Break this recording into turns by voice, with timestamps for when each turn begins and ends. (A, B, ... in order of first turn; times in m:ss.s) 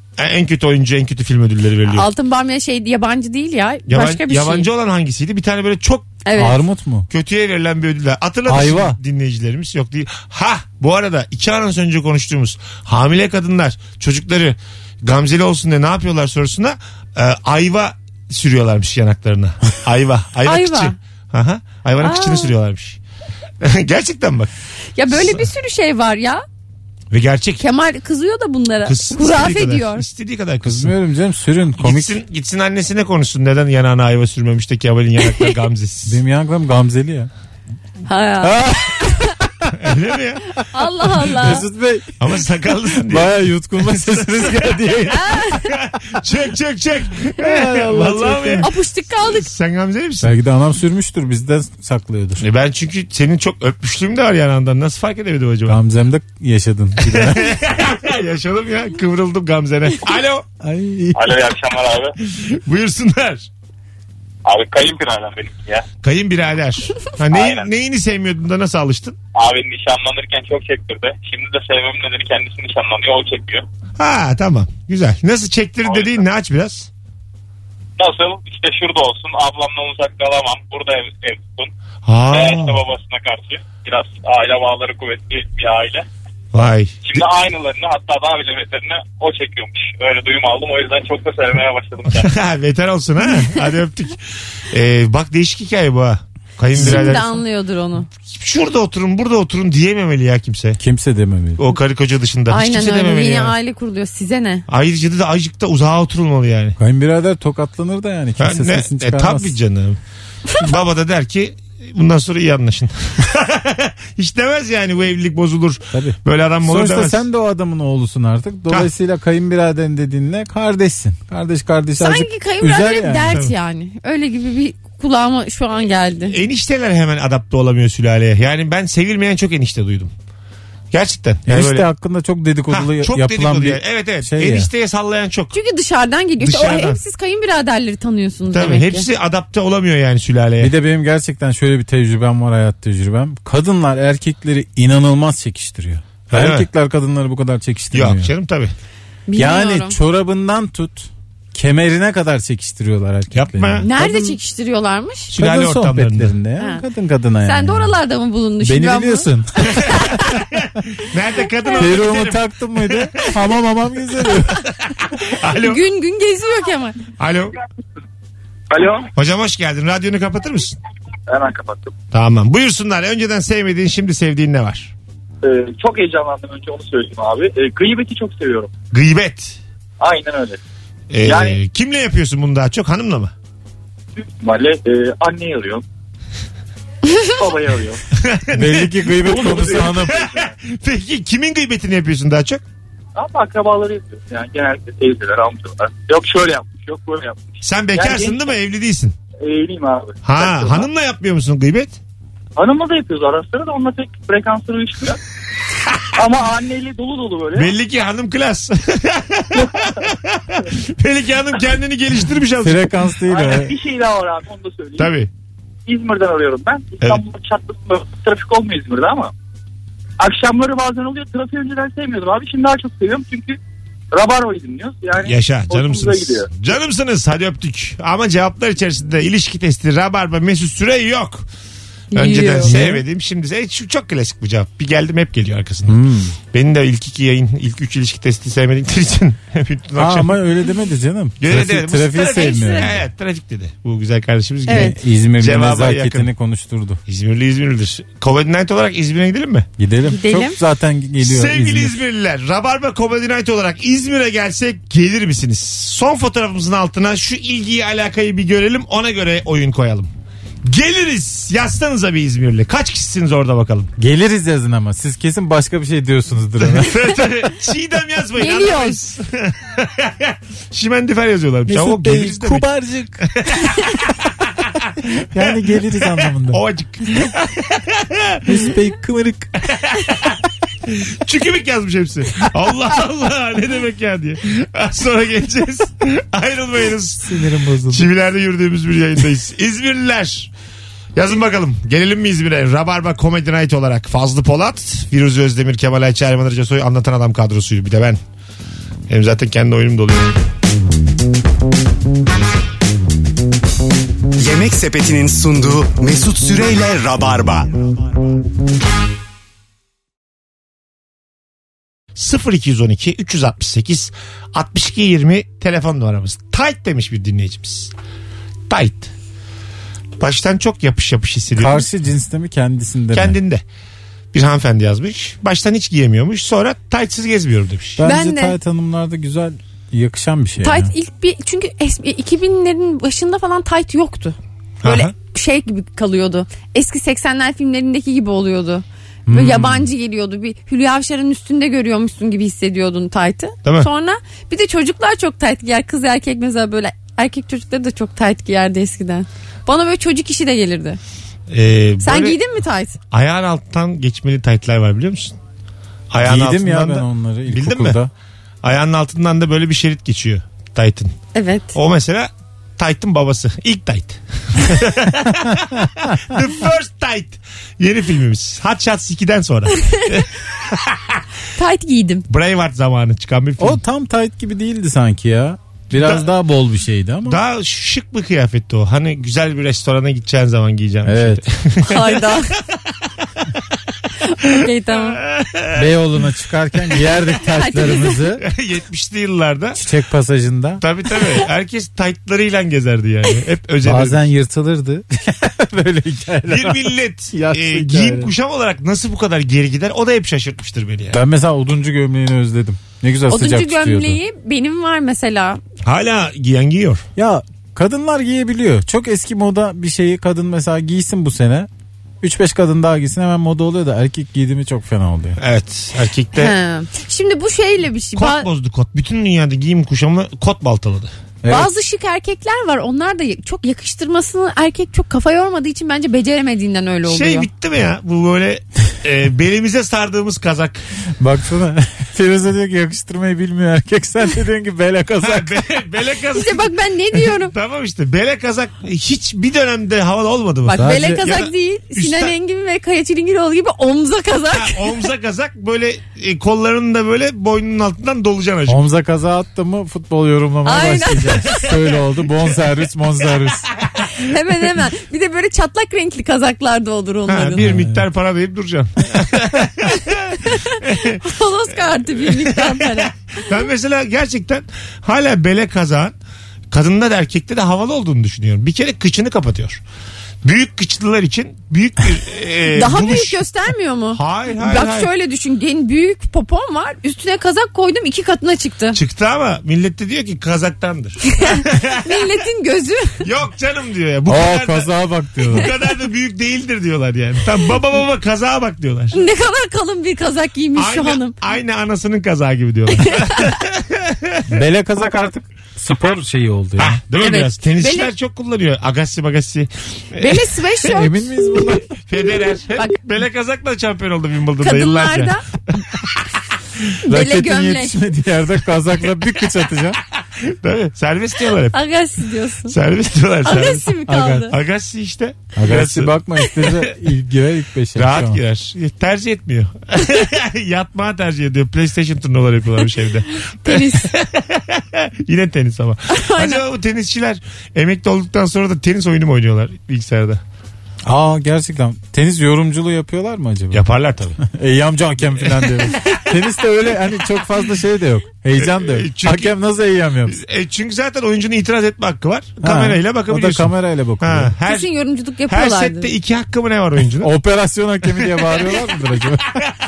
0:00.2-0:02.1 A
0:01.9-0:04.7 B
0:03.9-0:06.2 A
0:06.2-0:06.6 B
0:06.4-0:07.1 C
0:07.1-0:23.0 A
0:08.5-0:09.0 C
0:20.4-0:21.0 B
0:22.0-0:22.5 B
0:23.6-0:24.5 A
0:25.0-0:26.4 B
0:25.1-0:25.4 A
0:27.1-0:27.6 A
0:27.6-0:30.0 B
0:28.8-0:30.9 A
0:30.6-0:32.2 C
0:31.8-0:36.2 A
0:36.1-0:37.3 C
0:38.1-0:39.4 B
0:38.4-0:39.7 C
0:39.7-0:40.4 A
0:40.7-0:41.7 B
0:41.2-0:42.2 C
0:42.2-0:44.8 A
0:42.9-0:45.4 C
0:45.1-0:45.7 B
0:45.8-0:48.7 A
0:47.4-0:48.7 C
0:48.6-0:49.5 B
0:49.2-0:50.3 A
0:50.2-0:52.4 C
0:52.4-0:55.8 A
0:55.7-0:57.6 C
0:57.1-1:00.5 A
1:00.6-1:01.3 C
1:01.1-1:02.1 D
1:02.2-1:03.5 A
1:04.4-1:05.8 D
1:06.0-1:09.2 A
1:07.3-1:07.7 D
1:09.4-1:13.6 D
1:14.0-1:16.9 A
1:15.9-1:16.2 D
1:18.0-1:21.7 D
1:22.0-1:22.8 A
1:22.3-1:26.0 D
1:26.5-1:27.2 A
1:27.0-1:32.3 D
1:32.2-1:37.4 A
1:36.7-1:38.1 B
1:36.8-1:37.2 C
1:38.2-1:40.8 A
1:40.8-1:41.6 C
1:41.6-1:43.5 A
1:42.5-1:44.6 B
1:44.7-1:46.8 A
1:46.8-1:49.6 C
1:48.4-1:50.0 A
1:50.5-1:57.2 A
1:55.9-2:03.4 C
2:02.0-2:06.4 B
2:06.3-2:10.1 A
2:10.9-2:11.9 A
2:11.5-2:14.7 C
2:12.7-2:15.6 A
2:15.5-2:19.1 B
2:16.4-2:17.0 A
2:18.5-2:20.7 A
2:20.6-2:28.3 C
2:26.3-2:26.7 A
2:27.9-2:28.7 A
2:29.3-2:30.0 B
2:29.4-2:34.4 C
2:33.3-2:33.9 A
2:33.8-2:35.3 B
2:35.3-2:36.3 A
2:35.3-2:38.0 C
2:36.6-2:36.8 B
2:37.4-2:40.2 B
2:38.6-2:40.2 C
2:39.8-2:43.1 A
2:41.8-2:44.6 C
2:45.1-2:45.8 A
2:45.6-2:47.0 B
2:47.2-2:47.6 A
2:48.7-2:49.1 E
2:49.2-2:50.8 A
2:51.3-2:51.9 E
2:52.1-2:54.9 A
2:55.4-2:58.7 E
2:58.9-2:59.6 A
3:00.0-3:00.6 E
3:01.1-3:03.3 A
3:01.2-3:01.6 E
3:04.2-3:05.8 E
3:07.3-3:08.0 E
3:08.2-3:12.6 A
3:08.5-3:10.3 C
3:09.2-3:10.5 E
3:13.2-3:18.5 E
3:17.6-3:19.2 A
3:19.4-3:20.9 E
3:20.2-3:22.0 A
3:22.6-3:25.2 E
3:26.2-3:27.7 E
3:27.6-3:32.9 A
3:32.6-3:33.7 C
3:33.2-3:35.1 E
3:35.0-3:35.3 A
3:35.9-3:39.3 E
3:40.2-3:43.6 E
3:44.1-3:46.5 E
3:45.2-3:51.5 A
3:52.1-3:52.8 B
3:52.1-3:56.0 A
3:52.6-3:53.0 C
3:55.9-3:56.4 C
3:56.5-4:00.4 A
4:00.0-4:03.1 C
4:01.4-4:06.3 A
4:02.3-4:02.9 B
4:04.7-4:05.0 B
4:04.7-4:07.0 C
4:07.1-4:09.7 A
4:09.8-4:12.0 C
4:10.1-4:10.6 B
4:11.2-4:20.1 A
4:20.6-4:23.9 A
4:24.0-4:27.1 C
4:26.6-4:32.7 A
4:28.4-4:29.0 B
4:31.7-4:33.3 C
4:33.3-4:34.9 A
4:35.3-4:36.6 C
4:35.4-4:38.6 A
4:38.5-4:39.5 C
4:39.6-4:47.4 A
4:47.2-4:48.1 C
4:47.9-4:50.5 A
4:51.2-4:58.2 A
4:59.1-5:00.3 A
5:04.4-5:07.9 F
5:12.2-5:17.9 A
5:18.7-5:19.1 A
5:20.2-5:21.9 A
5:21.6-5:23.4 C
5:23.1-5:23.6 A
5:24.3-5:28.0 A
5:28.0-5:30.9 C
5:28.0-5:28.6 B
5:30.6-5:51.0 B
5:34.8-5:35.1 A
5:39.3-5:39.8 C
5:51.5-5:52.4 A
5:52.0-5:53.0 B
5:53.1-5:55.4 A
5:56.1-5:58.0 A
5:56.2-5:58.1 C
5:58.6-6:01.1 A
6:01.3-6:01.8 B
6:01.7-6:11.2 A
6:11.6-6:12.2 B
6:12.3-6:13.8 A
6:13.6-6:17.4 C
6:15.9-6:16.3 A
6:17.2-6:22.4 A
6:21.0-6:21.4 C
6:21.8-6:22.6 B
6:24.3-6:25.2 B
6:24.9-6:25.9 A
6:25.8-6:28.4 C
6:27.6-6:28.2 B
6:28.4-6:29.8 A
6:29.8-6:30.8 C
6:30.8-6:34.2 A
6:33.8-6:38.3 C
6:36.5-6:41.2 A
6:41.1-6:44.2 C
6:43.3-6:45.6 B
6:45.8-6:47.0 A
6:47.2-6:51.7 C
6:52.2-6:55.4 C
6:55.4-6:56.5 A
6:56.4-6:58.5 B
6:58.2-7:01.1 A
7:01.4-7:01.7 C
7:01.5-7:07.5 B
7:07.1-7:10.8 A
7:11.2-7:15.7 C
7:15.2-7:22.3 A
7:16.4-7:17.5 B
7:20.7-7:24.9 B
7:20.7-7:21.2 C
7:24.5-7:28.8 A
7:28.7-7:33.7 C
7:30.7-7:31.7 B
7:34.2-7:37.7 B
7:37.3-7:41.2 A
7:37.6-7:38.0 C
7:40.5-7:43.1 B
7:42.2-7:46.2 A
7:46.7-7:49.8 A
7:50.4-7:53.4 A
7:52.7-7:59.0 B
7:54.1-7:55.1 A
7:59.0-8:02.3 A
8:01.3-8:03.2 B
8:03.2-8:05.0 A
8:04.3-8:05.7 C
8:05.5-8:09.2 A
8:09.1-8:11.4 B
8:10.8-8:14.5 A
8:14.5-8:17.0 C
8:16.8-8:20.5 A
8:17.2-8:18.1 B
8:20.2-8:21.7 B
8:20.8-8:21.9 C
8:22.0-8:26.2 A
8:24.6-8:25.4 B
8:27.0-8:28.0 B
8:27.1-8:30.0 C
8:30.4-8:31.8 A
8:31.7-8:32.8 B
8:32.7-8:34.0 A
8:33.4-8:34.6 B
8:34.1-8:34.5 C
8:34.5-8:36.9 A
8:35.6-8:38.4 C
8:38.0-8:50.4 A
8:43.6-8:44.1 B
8:46.1-8:46.6 B
8:51.0-8:53.8 C
8:53.7-8:54.4 A
8:54.4-9:00.4 C
8:55.6-8:56.2 A
8:58.6-8:59.5 A
9:00.3-9:04.9 A
9:02.6-9:04.5 C
9:04.7-9:06.1 B
9:05.5-9:07.3 A
9:07.2-9:09.6 C
9:08.2-9:08.8 A